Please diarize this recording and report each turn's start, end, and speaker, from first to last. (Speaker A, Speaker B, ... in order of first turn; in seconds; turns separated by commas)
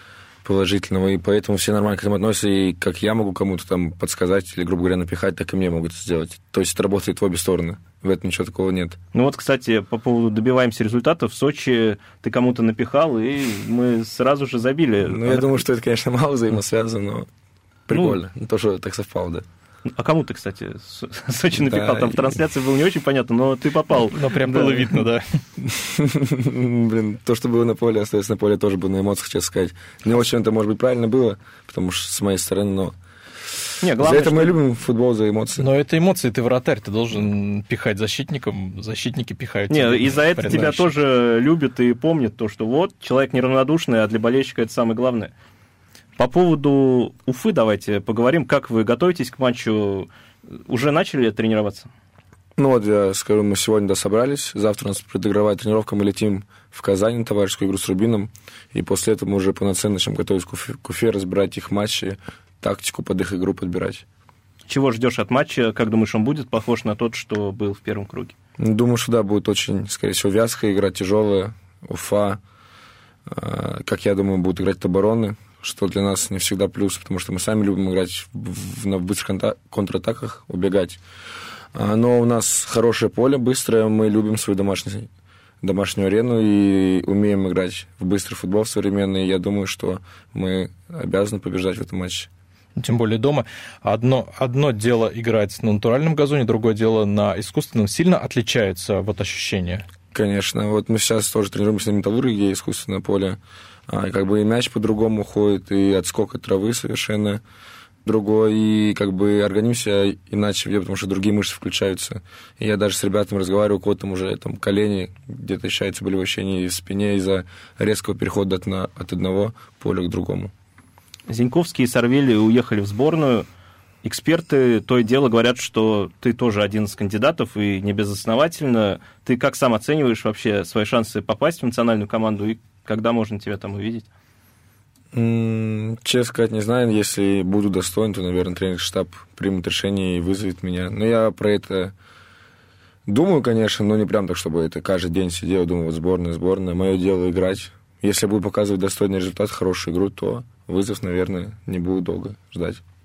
Speaker A: 0.4-9.0, Speaker B: 9.1-15.6, Speaker A: 15.1-17.3, Speaker A: 17.9-19.4, Speaker B: 17.9-18.2, Speaker B: 19.9-25.0, Speaker A: 21.5-22.4, Speaker C: 24.1-25.4, Speaker A: 25.6-33.0, Speaker A: 33.5-35.7, Speaker B: 33.8-34.6, Speaker C: 35.6-40.9, Speaker B: 39.7-45.3, Speaker B: 46.2-51.9, Speaker A: 52.6-64.0, Speaker B: 64.7-68.3, Speaker A: 68.6-72.4, Speaker A: 73.3-81.0, Speaker A: 81.7-85.1, Speaker A: 85.6-92.3, Speaker C: 92.8-99.8, Speaker A: 100.1-107.4, Speaker A: 108.0-120.5, Speaker B: 121.3-123.5, Speaker B: 124.0-134.1, Speaker A: 135.1-141.9, Speaker A: 143.1-152.8